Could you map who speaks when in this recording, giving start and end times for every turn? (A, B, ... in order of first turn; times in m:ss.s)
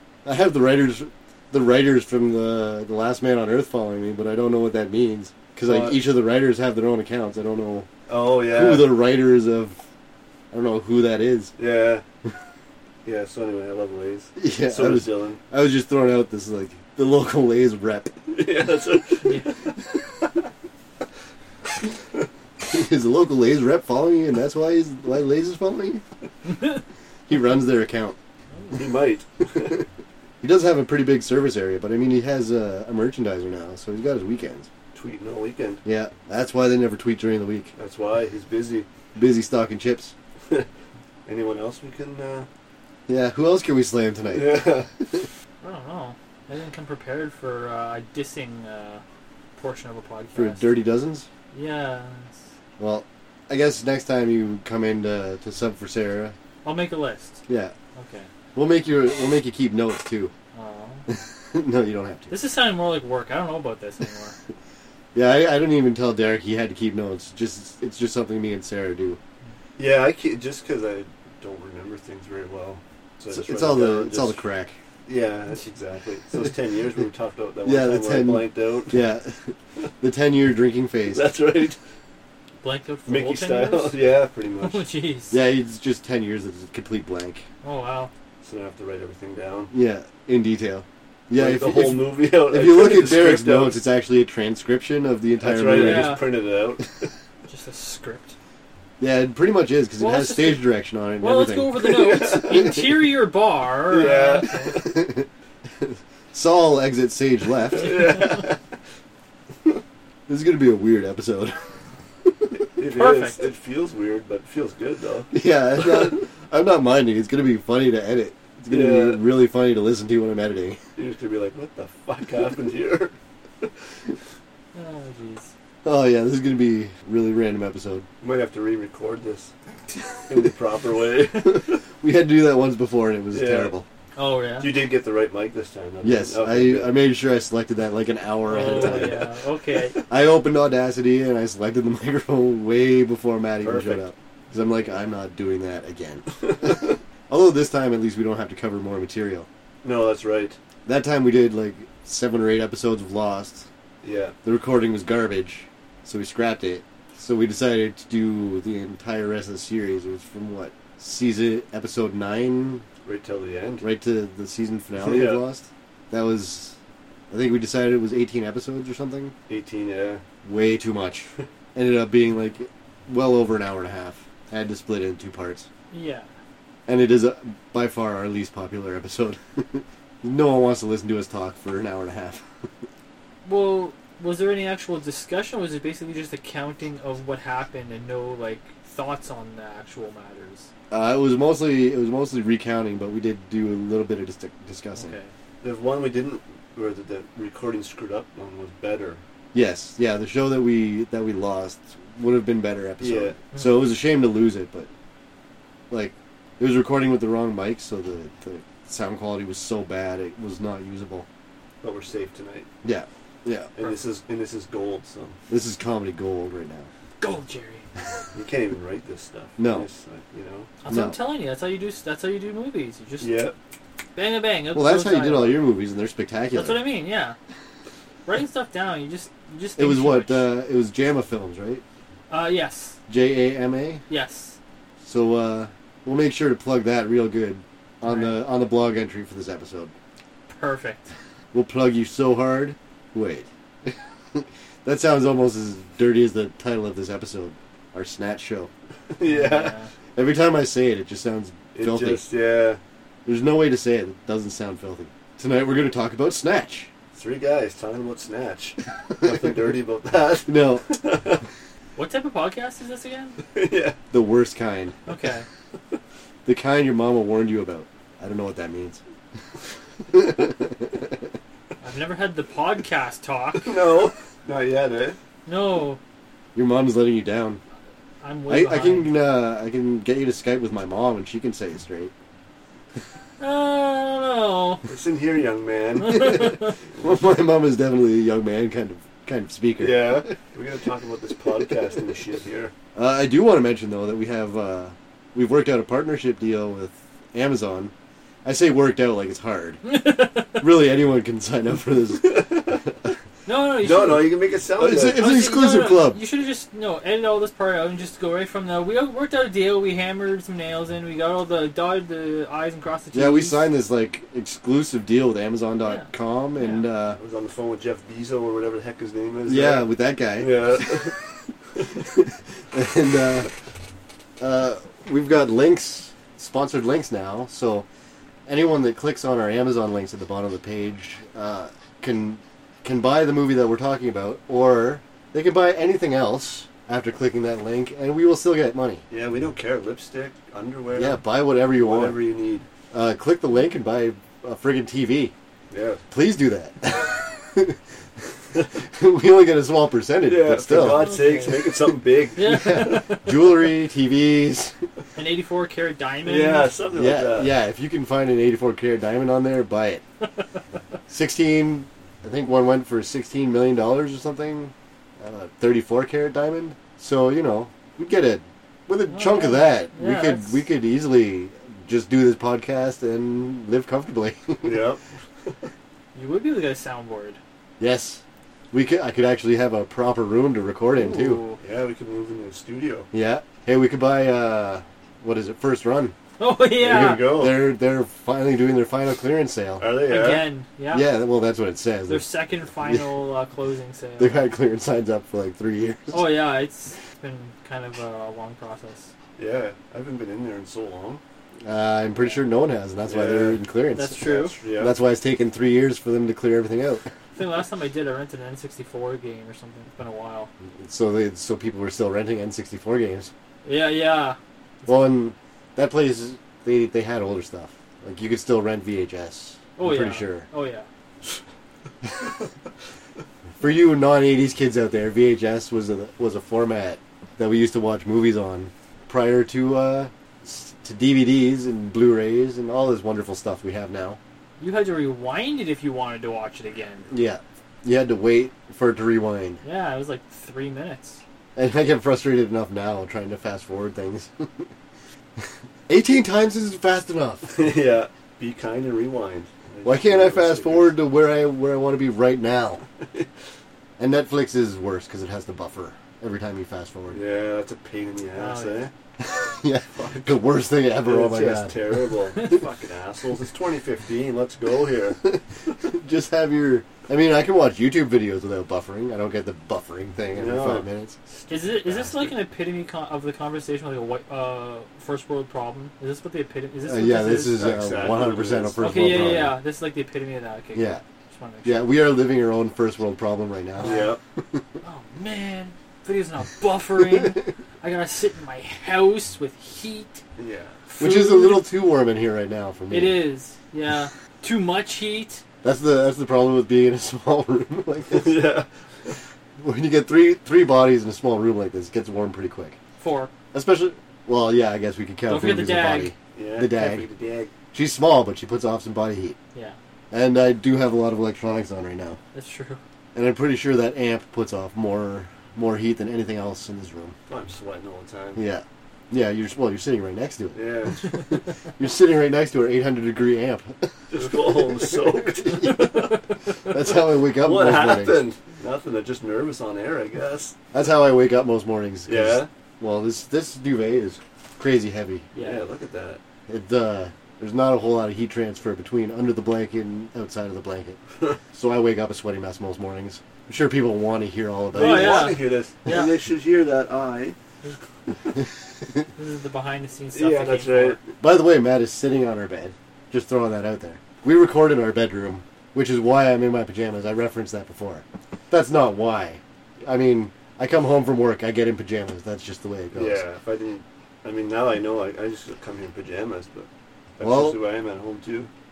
0:00.2-0:07.9 A
0:05.6-0:06.0 B
0:08.1-0:09.0 B
0:08.5-0:09.8 A
0:10.5-0:11.5 A
0:11.6-0:12.0 B
0:13.0-0:15.4 B
0:14.4-0:18.2 A
0:18.3-0:19.4 B
0:22.6-0:26.0 A
0:27.3-0:28.2 A
0:28.5-0:28.8 C
0:28.7-0:29.8 B
0:30.4-0:34.7 A
0:34.9-0:35.8 B
0:35.8-0:37.7 A
0:37.8-0:38.9 B
0:39.1-0:40.1 A
0:41.2-0:42.5 B
0:43.1-0:45.2 A
0:44.3-0:44.9 B
0:45.6-0:49.0 C
0:49.6-0:50.7 C
0:50.3-0:51.3 A
0:51.5-0:52.5 C
0:52.8-0:56.4 A
0:56.6-0:57.4 C
0:57.5-0:57.7 A
0:58.0-0:58.3 C
0:58.5-1:00.3 A
1:00.5-1:01.0 C
1:01.1-1:02.3 A
1:02.3-1:04.4 C
1:05.1-1:09.2 A
1:09.8-1:14.4 B
1:13.3-1:14.8 A
1:15.1-1:19.0 B
1:17.6-1:21.2 A
1:21.1-1:21.8 B
1:22.6-1:24.0 C
1:23.1-1:24.8 B
1:24.6-1:25.4 C
1:25.3-1:27.4 A
1:27.6-1:28.1 C
1:28.4-1:29.7 B
1:29.7-1:36.2 A
1:31.3-1:33.8 B
1:35.4-1:37.0 B
1:35.7-1:36.2 C
1:37.5-1:38.4 C
1:39.0-1:41.8 A
1:40.0-1:40.7 C
1:41.2-1:44.8 C
1:41.8-1:42.9 B
1:43.9-1:45.0 B
1:44.8-1:45.2 A
1:45.8-1:48.3 A
1:47.7-1:48.6 B
1:50.3-1:51.6 A
1:52.8-1:56.2 B
1:53.0-1:53.4 C
1:55.3-2:00.8 A
1:58.7-1:59.2 B
2:01.0-2:03.6 B
2:04.7-2:05.5 C
2:05.8-2:08.0 A
2:08.2-2:09.5 B
2:10.3-2:11.8 B
2:12.0-2:13.8 A
2:13.3-2:13.7 B
2:14.2-2:14.7 C
2:14.6-2:17.0 B
2:16.0-2:19.3 A
2:18.4-2:20.0 C
2:18.5-2:19.4 B
2:20.1-2:29.5 A
2:23.6-2:24.0 B
2:26.6-2:26.9 B
2:29.8-2:30.6 B
2:30.8-2:33.7 A
2:34.0-2:34.3 B
2:34.4-2:42.8 A
2:43.0-2:43.9 B
2:43.8-2:46.8 A
2:45.0-2:45.4 B
2:47.3-2:49.3 A
2:49.5-2:50.2 B
2:50.4-2:55.7 A
2:55.9-2:56.3 C
2:56.9-3:02.4 A
3:03.4-3:10.7 C
3:10.9-3:15.1 A
3:15.0-3:15.3 C
3:15.6-3:19.2 B
3:19.5-3:24.9 A
3:23.0-3:23.4 B
3:23.5-3:23.9 C
3:25.9-3:31.2 A
3:31.8-3:32.7 B
3:32.8-3:33.7 A
3:33.8-3:35.4 B
3:35.5-3:36.9 A
3:37.2-3:37.8 C
3:38.3-3:40.7 B
3:39.6-3:39.9 A
3:40.8-3:43.4 C
3:40.9-3:41.2 A
3:43.2-3:43.5 B
3:44.2-3:45.6 C
3:44.7-3:46.9 A
3:46.5-3:47.4 C
3:48.2-3:50.5 C
3:49.8-3:51.8 A
3:52.3-3:53.0 C
3:53.1-3:54.0 A
3:54.1-3:54.6 C
3:55.0-3:59.9 A
3:58.0-3:58.4 C
4:00.5-4:01.0 C
4:01.5-4:08.7 A
4:09.1-4:09.7 B
4:09.2-4:09.9 C
4:10.2-4:12.2 A
4:11.7-4:12.8 B
4:13.2-4:16.9 A
4:17.1-4:21.4 B
4:20.4-4:20.9 A
4:22.0-4:23.4 C
4:23.5-4:24.0 B
4:24.1-4:25.0 A
4:25.1-4:25.4 C
4:26.4-4:29.0 A
4:30.1-4:31.0 A
4:31.8-4:33.7 C
4:33.6-4:35.2 B
4:35.4-4:36.0 C
4:36.5-4:37.6 A
4:38.2-4:39.1 C
4:38.5-4:42.1 A
4:43.4-4:44.8 C
4:44.9-4:46.6 B
4:46.0-4:46.7 C
4:47.0-4:50.2 A
4:49.8-4:52.7 B
4:52.9-4:57.9 A
4:58.4-4:59.8 A
4:59.8-5:00.6 C
5:00.6-5:02.8 A
5:02.2-5:02.8 B
5:03.4-5:04.4 C
5:03.8-5:05.2 B
5:04.8-5:06.2 A
5:05.0-5:13.7 C
5:13.1-5:17.2 A
5:15.8-5:16.8 C
5:17.1-5:21.1 B
5:19.5-5:21.2 A
5:21.8-5:23.5 A
5:24.4-5:27.8 A
5:28.4-5:39.0 A
5:39.1-5:42.7 B
5:40.9-5:42.2 A
5:42.9-5:45.3 A
5:45.7-5:46.0 B
5:46.1-5:47.8 A
5:48.8-5:51.2 A
5:50.3-5:52.6 B
5:50.8-5:51.7 C
5:52.4-5:53.6 C
5:52.4-5:54.8 A
5:55.2-5:56.7 C
5:56.2-5:57.5 B
5:56.9-6:00.0 A
6:01.1-6:14.8 A
6:09.1-6:10.6 C
6:14.6-6:15.5 B
6:16.1-6:17.4 C
6:17.8-6:21.4 A
6:20.9-6:21.6 C
6:21.6-6:23.1 B
6:23.1-6:26.1 A
6:26.4-6:27.4 C
6:26.8-6:27.7 B
6:26.8-6:29.8 A
6:29.8-6:30.5 B
6:30.0-6:31.1 C
6:30.9-6:33.2 A
6:32.1-6:34.5 C
6:34.2-6:36.3 A
6:36.1-6:39.1 C
6:39.4-6:41.2 B
6:41.6-6:47.1 A
6:42.2-6:42.4 C
6:43.1-6:43.6 B
6:44.0-6:44.6 C
6:44.2-6:44.9 B
6:47.3-6:50.5 C
6:50.7-6:53.3 A
6:53.6-6:55.1 C
6:54.8-7:00.5 A
6:59.8-7:00.9 C
7:03.6-7:14.2 A
7:14.6-7:17.1 C
7:17.1-7:19.6 A
7:19.6-7:21.2 C
7:21.6-7:24.7 A
7:25.9-7:27.5 A
7:27.5-7:30.9 B
7:29.8-7:32.8 A
7:34.0-7:37.2 A
7:37.1-7:38.9 B
7:38.4-7:38.9 C
7:39.2-7:42.2 A
7:40.0-7:40.3 B
7:41.0-7:45.2 B
7:42.4-7:42.7 C
7:45.3-7:51.2 A
7:50.3-7:50.9 B
7:51.5-7:57.7 C
7:51.8-7:52.3 B
7:56.8-7:59.6 A
7:57.5-7:59.3 B
7:58.8-8:02.0 C
8:00.7-8:01.0 A
8:01.6-8:04.6 A
8:03.8-8:04.1 C
8:03.8-8:04.2 B
8:04.8-8:10.2 C
8:07.0-8:07.4 A
8:10.4-8:10.8 B
8:10.9-8:11.7 C
8:11.0-8:13.2 A
8:12.9-8:15.4 C
8:15.6-8:18.5 A
8:18.1-8:18.7 B
8:19.6-8:22.8 A
8:23.0-8:23.3 C
8:23.5-8:27.1 A
8:25.3-8:26.1 C
8:26.3-8:27.5 B
8:27.7-8:29.4 A
8:30.1-8:32.2 A
8:32.3-8:32.8 C
8:33.1-8:37.2 A
8:37.3-8:38.4 B
8:38.3-8:46.0 A
8:40.5-8:41.2 B
8:44.1-8:46.1 B
8:45.6-8:46.2 C
8:46.7-8:48.3 A
8:47.4-8:50.5 B
8:50.7-8:55.3 A
8:52.1-8:52.5 B
8:55.3-8:55.6 C
8:55.4-8:56.2 B
8:56.5-9:01.0 A
9:01.5-9:05.4 A
9:04.7-9:07.4 B
9:04.8-9:06.1 C
9:09.2-9:11.0 C
9:10.1-9:11.0 B
9:11.2-9:23.2 A
9:22.9-9:28.5 B
9:27.2-9:27.6 A